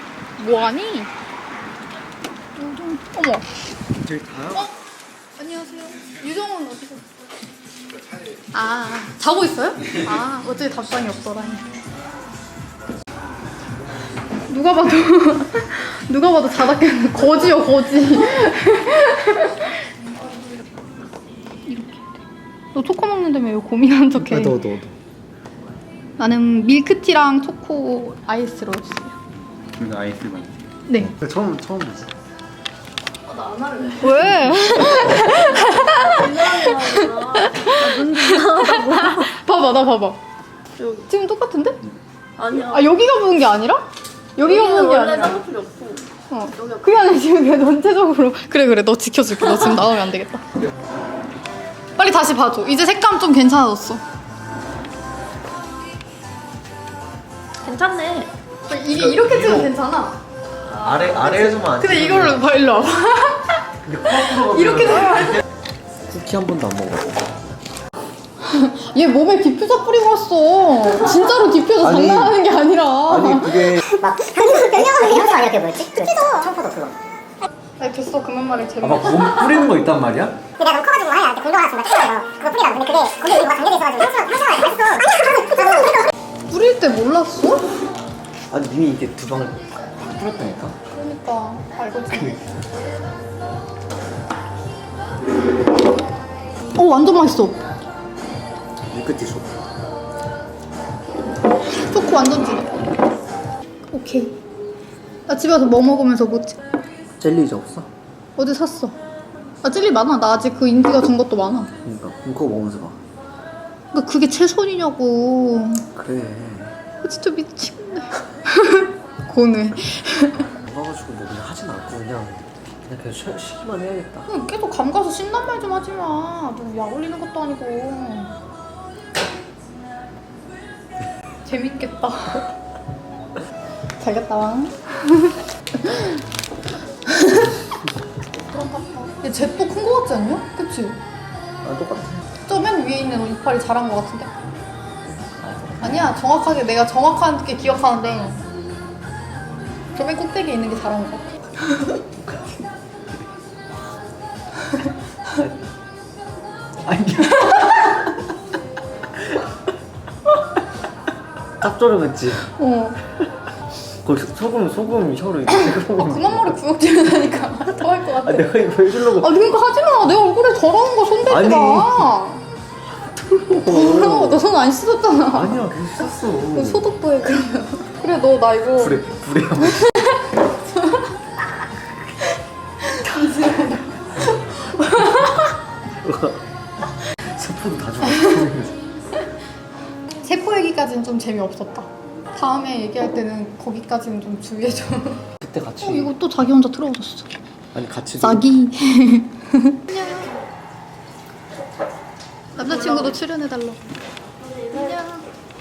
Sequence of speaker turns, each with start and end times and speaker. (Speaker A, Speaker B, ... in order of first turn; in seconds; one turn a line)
Speaker A: 0.4-1.1
Speaker A: 2.5-3.5
Speaker B: 4.0-4.7
Speaker A: 5.3-7.0
Speaker A: 8.5-11.7
Speaker A: 14.5-19.9
Speaker A: 21.6-22.2
Speaker A: 22.7-24.6
Speaker B: 24.2-24.9
Speaker A: 26.2-29.1
Speaker B: 29.8-32.1
Speaker A: 30.9-31.1
Speaker C: 33.2-39.3
Speaker A: 34.0-40.2
Speaker C: 40.8-41.1
Speaker A: 41.1-41.8
Speaker C: 42.4-42.9
Speaker A: 42.6-43.8
Speaker A: 44.4-45.4
Speaker C: 44.4-46.9
Speaker A: 46.3-50.4
Speaker A: 52.0-54.0
Speaker C: 57.6-58.3
Speaker A: 58.6-60.2
Speaker B: 59.0-59.7
Speaker B: 60.6-62.4
Speaker A: 60.8-65.4
Speaker B: 63.8-65.2
Speaker B: 66.1-67.2
Speaker A: 68.4-74.0
Speaker B: 71.8-72.4
Speaker B: 73.1-73.8
Speaker D: 74.0-77.0
Speaker A: 77.8-79.7
Speaker B: 78.8-80.4
Speaker D: 80.6-86.1
Speaker A: 86.5-87.7
Speaker B: 88.5-90.8
Speaker A: 90.9-92.4
Speaker A: 96.7-97.6
Speaker B: 98.9-99.7
Speaker A: 101.7-102.8
Speaker A: 103.9-104.4
Speaker A: 105.3-106.6
Speaker B: 107.2-107.9
Speaker A: 108.4-109.0
Speaker A: 109.6-111.7
Speaker B: 111.8-113.0
Speaker A: 113.9-115.9
Speaker B: 115.9-116.8
Speaker A: 117.0-120.5
Speaker B: 120.4-124.3
Speaker A: 124.3-128.3
Speaker A: 131.4-132.5
Speaker A: 134.0-136.2
Speaker A: 137.1-137.7
Speaker A: 138.4-141.0
Speaker B: 141.6-142.2
Speaker A: 142.4-144.3
Speaker B: 145.4-146.0
Speaker A: 145.8-148.4
Speaker A: 149.9-152.0
Speaker B: 156.8-157.9
Speaker B: 161.6-162.4
Speaker A: 162.6-163.0
Speaker B: 164.0-166.6
Speaker A: 165.6-172.4
Speaker B: 168.2-169.4
Speaker B: 171.2-172.1
Speaker B: 173.0-174.4
Speaker A: 173.6-175.7
Speaker B: 175.3-176.9
Speaker A: 176.5-179.0
Speaker B: 178.8-180.1
Speaker A: 179.6-181.2
Speaker A: 182.8-185.5
Speaker B: 186.0-186.4
Speaker B: 187.1-188.8
Speaker A: 188.0-188.4
Speaker A: 190.2-195.3
Speaker B: 195.4-196.1
Speaker A: 195.8-197.3
Speaker B: 197.7-198.5
Speaker A: 198.2-200.3
Speaker A: 202.6-203.9
Speaker A: 204.7-205.2